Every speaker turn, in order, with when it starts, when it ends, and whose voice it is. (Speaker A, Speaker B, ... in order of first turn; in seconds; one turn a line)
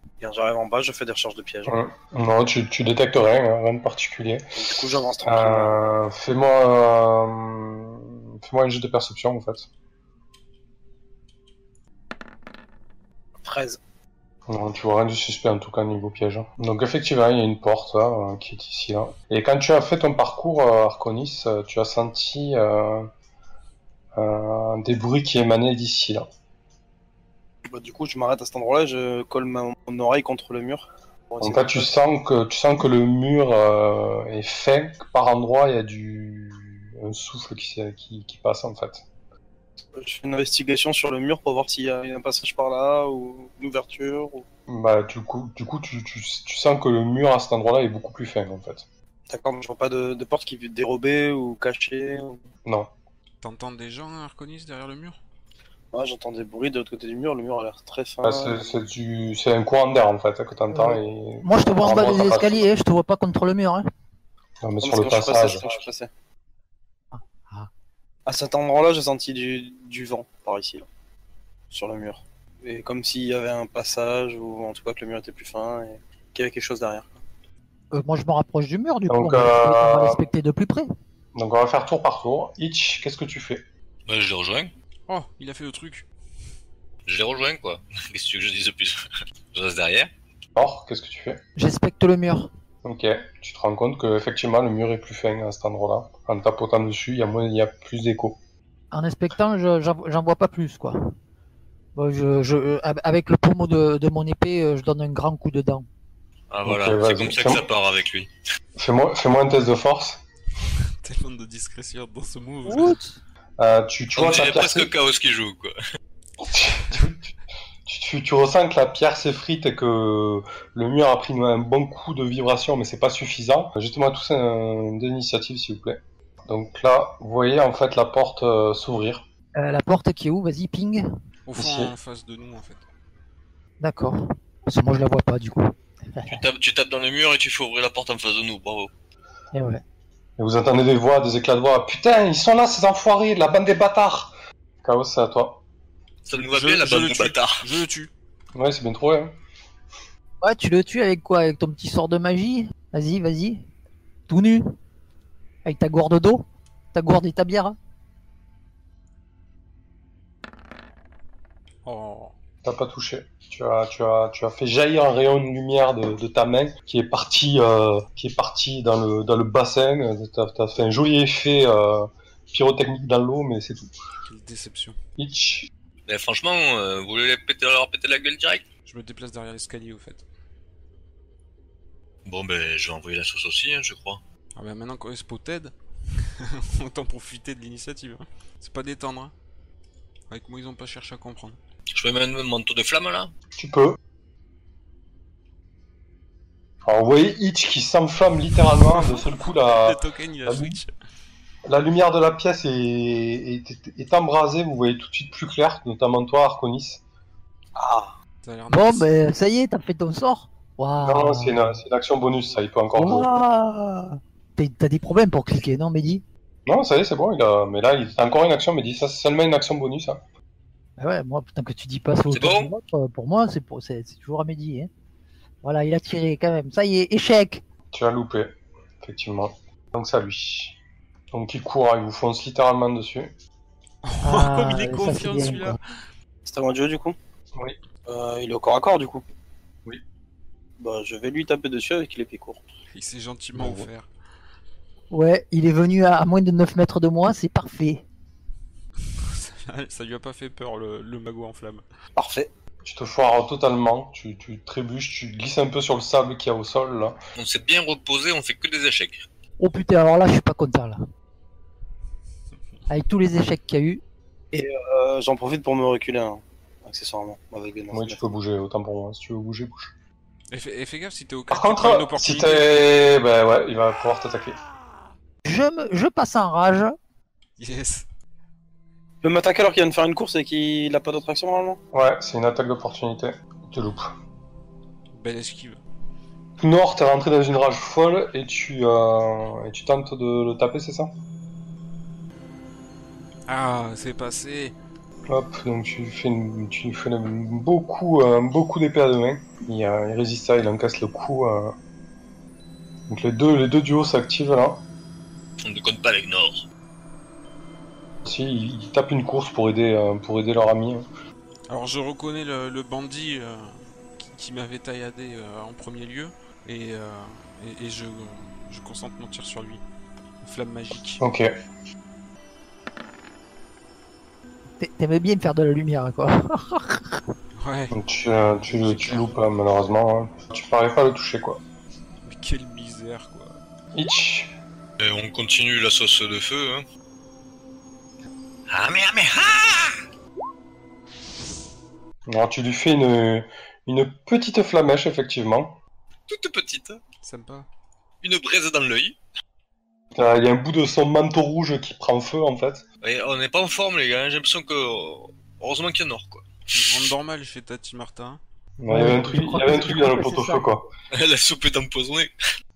Speaker A: 0.2-1.8
Speaker B: 1.7-9.7
Speaker A: 4.6-5.8
Speaker A: 13.4-13.8
Speaker B: 14.5-23.1
Speaker B: 24.2-26.2
Speaker A: 27.7-31.9
Speaker B: 31.4-39.0
Speaker A: 40.0-44.5
Speaker B: 44.7-48.9
Speaker A: 49.3-52.4
Speaker B: 52.6-52.9
Speaker C: 53.4-55.2
Speaker A: 55.9-58.6
Speaker B: 58.2-62.6
Speaker D: 60.7-63.9
Speaker B: 64.6-65.6
Speaker A: 64.8-66.1
Speaker D: 67.1-67.7
Speaker A: 68.3-70.9
Speaker A: 71.7-77.1
Speaker D: 77.9-80.9
Speaker B: 79.1-80.2
Speaker B: 81.4-83.6
Speaker E: 84.1-84.7
Speaker C: 85.1-86.1
Speaker E: 87.1-89.0
Speaker E: 89.5-90.1
Speaker B: 90.6-91.4
Speaker D: 91.6-92.5
Speaker B: 92.8-98.4
Speaker D: 98.9-101.0
Speaker D: 102.0-105.9
Speaker E: 106.5-108.3
Speaker B: 106.6-107.7
Speaker B: 108.8-110.2
Speaker C: 111.0-113.0
Speaker D: 112.7-113.2
Speaker B: 113.6-114.9
Speaker E: 114.1-115.8
Speaker B: 116.4-117.3
Speaker B: 117.9-129.3
Speaker D: 129.6-131.1
Speaker C: 131.5-132.8
Speaker D: 131.6-131.9
Speaker D: 133.8-136.4
Speaker E: 136.3-138.9
Speaker D: 139.5-139.8
Speaker B: 140.4-145.6
Speaker E: 146.2-147.6
Speaker C: 146.3-148.1
Speaker B: 148.6-149.3
Speaker D: 150.4-153.7
Speaker D: 154.3-154.6
Speaker D: 155.6-157.8
Speaker C: 161.8-162.3
Speaker B: 162.6-173.9
Speaker C: 174.2-175.0
Speaker B: 175.2-175.7
Speaker E: 176.1-178.6
Speaker C: 178.9-180.2
Speaker E: 182.2-184.2
Speaker C: 184.6-189.3
Speaker C: 190.3-191.6
Speaker E: 191.9-193.3
Speaker B: 193.6-194.0
Speaker B: 196.8-200.8
Speaker C: 198.8-200.9
Speaker B: 201.7-207.0
Speaker A: 207.8-208.1
Speaker C: 208.4-209.1
Speaker D: 208.7-211.8
Speaker B: 211.0-213.3
Speaker D: 213.0-216.2
Speaker B: 216.7-220.2
Speaker D: 221.0-224.9
Speaker E: 222.3-222.7
Speaker D: 225.6-227.6
Speaker B: 227.9-230.8
Speaker B: 231.3-233.3
Speaker C: 234.1-235.8
Speaker D: 234.2-235.8
Speaker A: 236.5-237.2
Speaker A: 238.1-239.2
Speaker A: 240.8-242.6
Speaker C: 242.9-244.1
Speaker D: 245.1-248.1
Speaker C: 249.2-251.8
Speaker A: 252.2-252.5
Speaker B: 252.8-257.2
Speaker E: 257.4-259.2
Speaker D: 259.6-261.0
Speaker D: 262.9-264.0
Speaker A: 264.5-268.2
Speaker B: 267.9-269.9
Speaker C: 270.5-272.9
Speaker B: 271.5-274.6
Speaker D: 275.4-276.9
Speaker C: 277.6-278.1
Speaker A: 279.2-281.8
Speaker B: 281.9-284.1
Speaker C: 285.1-285.8
Speaker B: 286.6-291.1
Speaker C: 293.5-294.8
Speaker B: 295.3-301.8
Speaker B: 303.1-304.9
Speaker E: 305.6-306.7
Speaker B: 308.2-311.1
Speaker C: 311.7-319.8
Speaker C: 320.4-321.2
Speaker B: 321.2-321.5
Speaker D: 324.8-327.2
Speaker C: 327.6-328.0
Speaker B: 327.9-331.6
Speaker C: 328.6-329.4
Speaker C: 332.2-333.6
Speaker B: 333.9-334.5
Speaker E: 335.0-336.9
Speaker E: 338.7-339.9
Speaker B: 342.3-345.8
Speaker E: 346.3-347.0
Speaker C: 347.2-347.7
Speaker E: 348.2-349.2
Speaker B: 350.1-352.8
Speaker E: 353.0-357.1
Speaker C: 356.7-358.4
Speaker B: 358.8-360.9
Speaker D: 358.9-360.7
Speaker E: 361.1-362.3